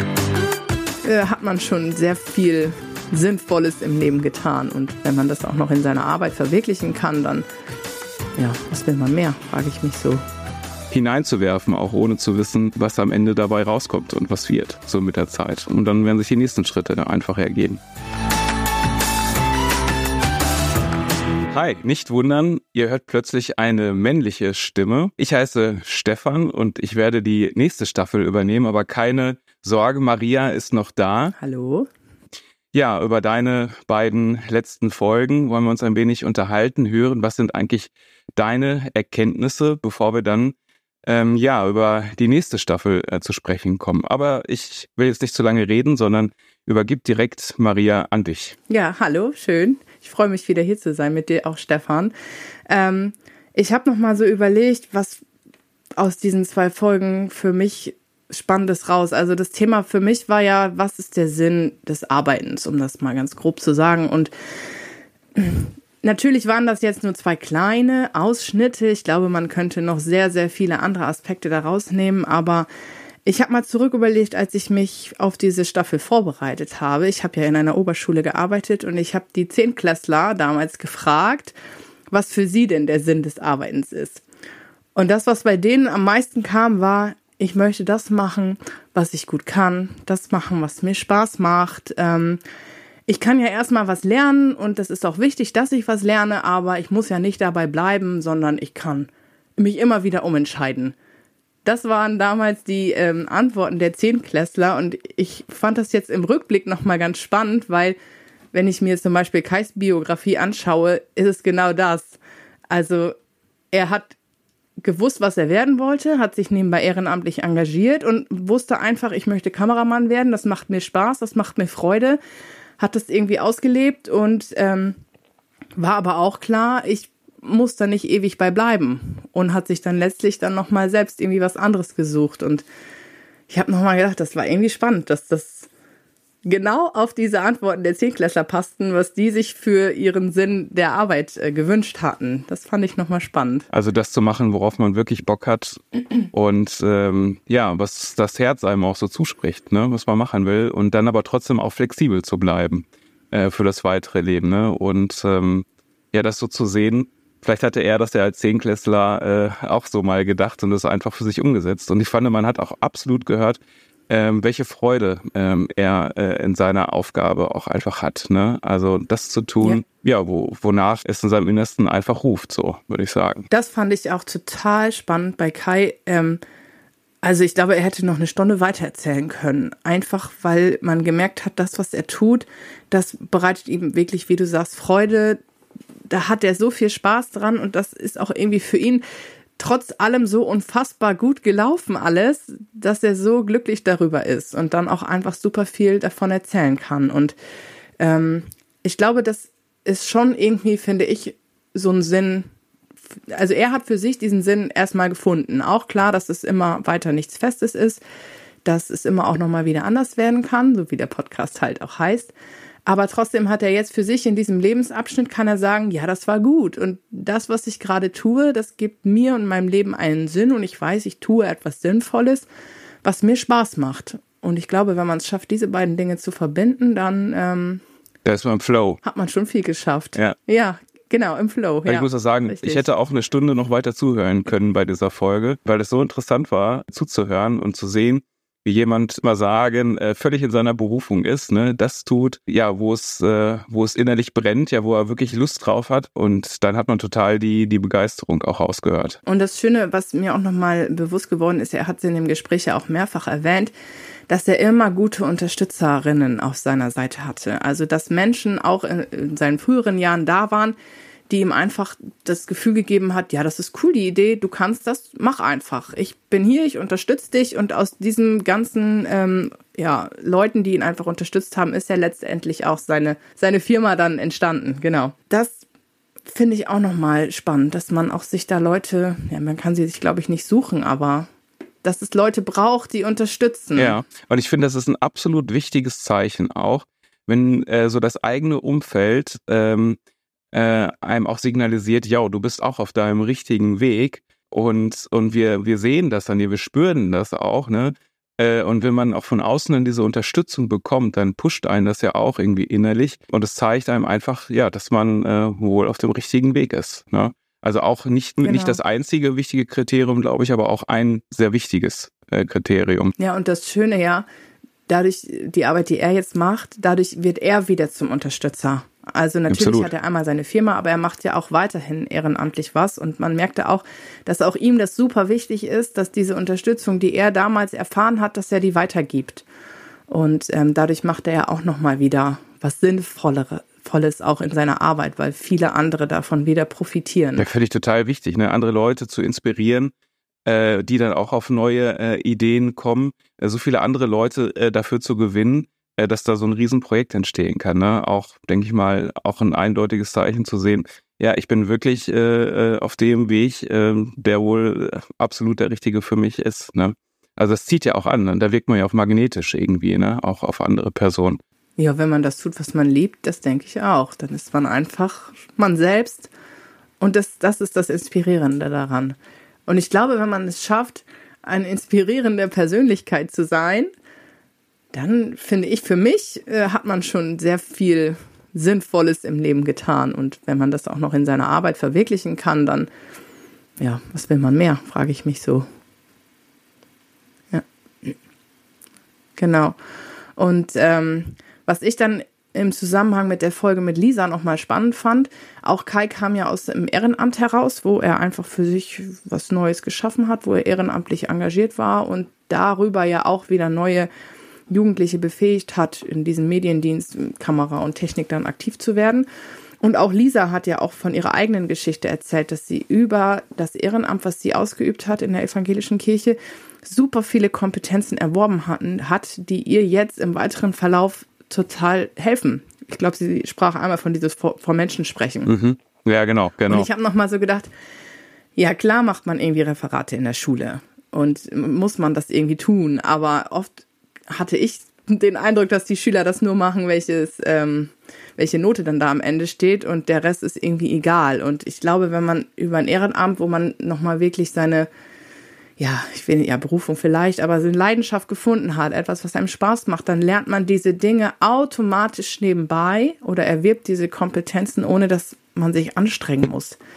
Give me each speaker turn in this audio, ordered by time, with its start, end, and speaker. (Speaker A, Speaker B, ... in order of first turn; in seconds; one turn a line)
Speaker A: 1.0-7.5
Speaker A: 8.4-10.2
Speaker B: 10.9-17.8
Speaker B: 21.5-31.3
Speaker A: 31.4-31.9
Speaker B: 32.7-40.5
Speaker B: 41.0-48.5
Speaker A: 48.7-52.1
Speaker A: 52.7-55.2
Speaker A: 56.0-64.3
Speaker A: 65.3-72.7
Speaker A: 73.2-81.5
Speaker A: 82.1-84.2
Speaker A: 84.9-92.4
Speaker A: 93.1-101.0
Speaker A: 101.6-108.0
Speaker A: 108.5-112.2
Speaker A: 112.7-113.2
Speaker A: 113.7-114.2
Speaker A: 114.8-122.2
Speaker A: 122.8-125.0
Speaker A: 125.8-132.6
Speaker A: 133.5-135.7
Speaker A: 136.4-143.7
Speaker B: 143.7-145.8
Speaker B: 146.3-173.5
Speaker A: 173.5-176.4
Speaker A: 177.2-185.4
Speaker A: 186.1-189.0
Speaker A: 189.6-197.3
Speaker A: 198.0-202.5
Speaker A: 203.3-208.0
Speaker A: 208.6-212.3
Speaker A: 212.8-222.5
Speaker A: 223.0-227.8
Speaker B: 228.2-229.0
Speaker A: 229.0-232.9
Speaker B: 231.8-249.2
Speaker A: 249.2-253.7
Speaker A: 254.3-260.8
Speaker A: 261.3-275.6
Speaker A: 276.3-281.3
Speaker A: 281.8-284.0
Speaker B: 283.7-290.0
Speaker B: 290.5-313.1
Speaker A: 308.4-308.8
Speaker A: 313.2-314.2
Speaker A: 314.9-329.4
Speaker B: 319.5-319.9
Speaker A: 330.1-337.5
Speaker B: 337.4-339.9
Speaker B: 340.4-361.4
Speaker A: 361.8-366.3
Speaker A: 367.0-373.9
Speaker A: 374.9-382.9
Speaker A: 383.8-385.6
Speaker A: 387.5-388.1
Speaker A: 389.4-389.8
Speaker A: 390.4-404.1
Speaker A: 404.7-409.3
Speaker A: 409.8-425.5
Speaker B: 425.4-426.9
Speaker A: 426.7-427.7
Speaker A: 428.6-444.9
Speaker A: 445.8-456.8